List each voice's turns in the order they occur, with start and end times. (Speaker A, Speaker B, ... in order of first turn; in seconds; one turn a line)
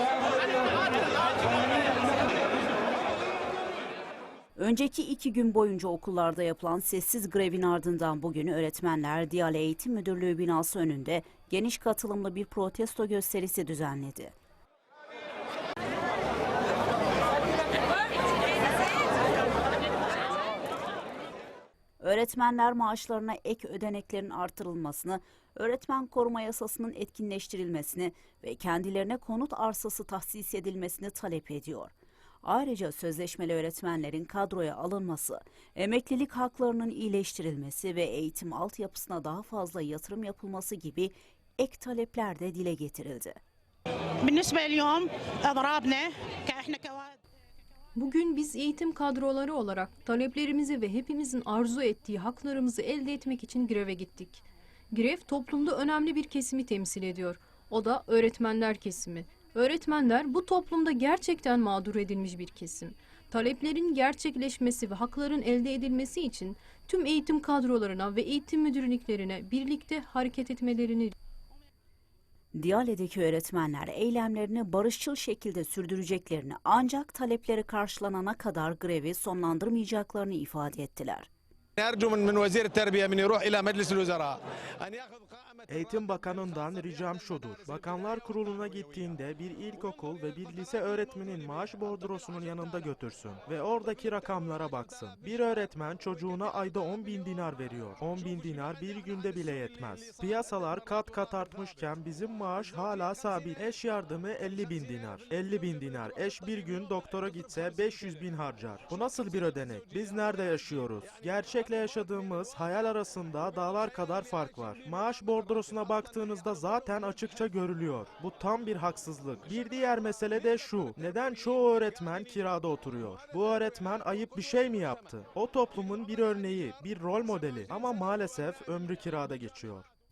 Speaker A: 4.6-14.3
Speaker A: 22.0-43.4
Speaker B: 44.2-47.1
Speaker C: 48.0-71.1
Speaker A: 72.5-81.3
Speaker D: 81.8-85.8
Speaker E: 85.7-129.9